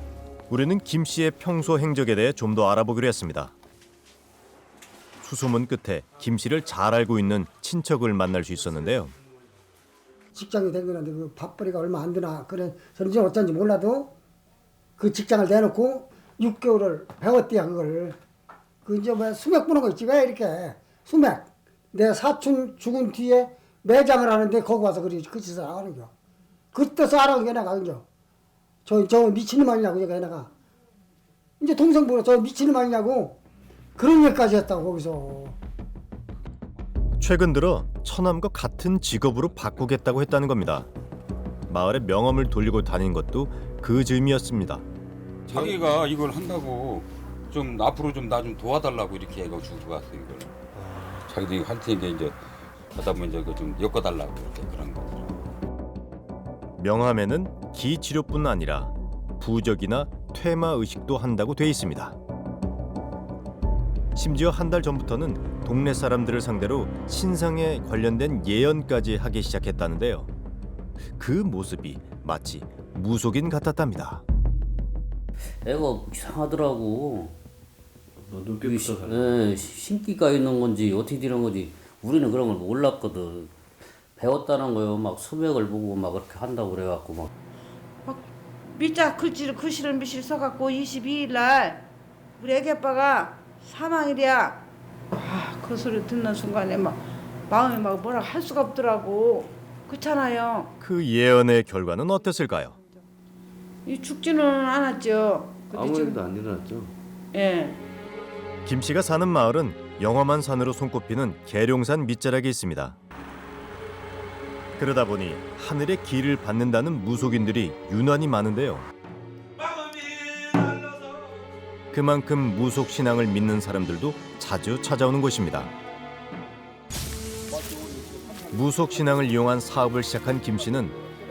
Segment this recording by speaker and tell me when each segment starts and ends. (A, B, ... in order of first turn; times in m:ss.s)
0:00.5-0:03.5 A
0:05.2-0:09.1 A
0:10.3-0:14.1 B
0:15.0-0:18.2 B
0:18.8-0:26.1 B
0:26.7-0:28.0 B
0:28.8-0:30.5 B
0:31.6-0:33.4 B
0:34.0-0:35.6 B
0:37.2-0:40.9 A
0:41.7-0:44.8 A
0:45.5-0:50.6 C
0:51.2-0:52.4 C
0:52.9-0:55.3 C
0:56.8-1:02.2 A
1:04.2-1:10.3 A
1:11.2-1:14.2 A
1:15.6-1:17.4 D
1:18.2-1:19.7 E
1:18.7-1:23.5 D
1:24.2-1:27.3 D
1:28.0-1:31.8 F
1:32.4-1:40.7 F
1:40.8-1:42.8 A
1:43.8-1:46.2 F
1:45.7-1:46.9 E
1:47.3-1:47.8 F
1:48.6-1:53.0 A
1:54.8-1:58.9 A
2:01.9-2:05.7 A
2:08.5-2:10.9 A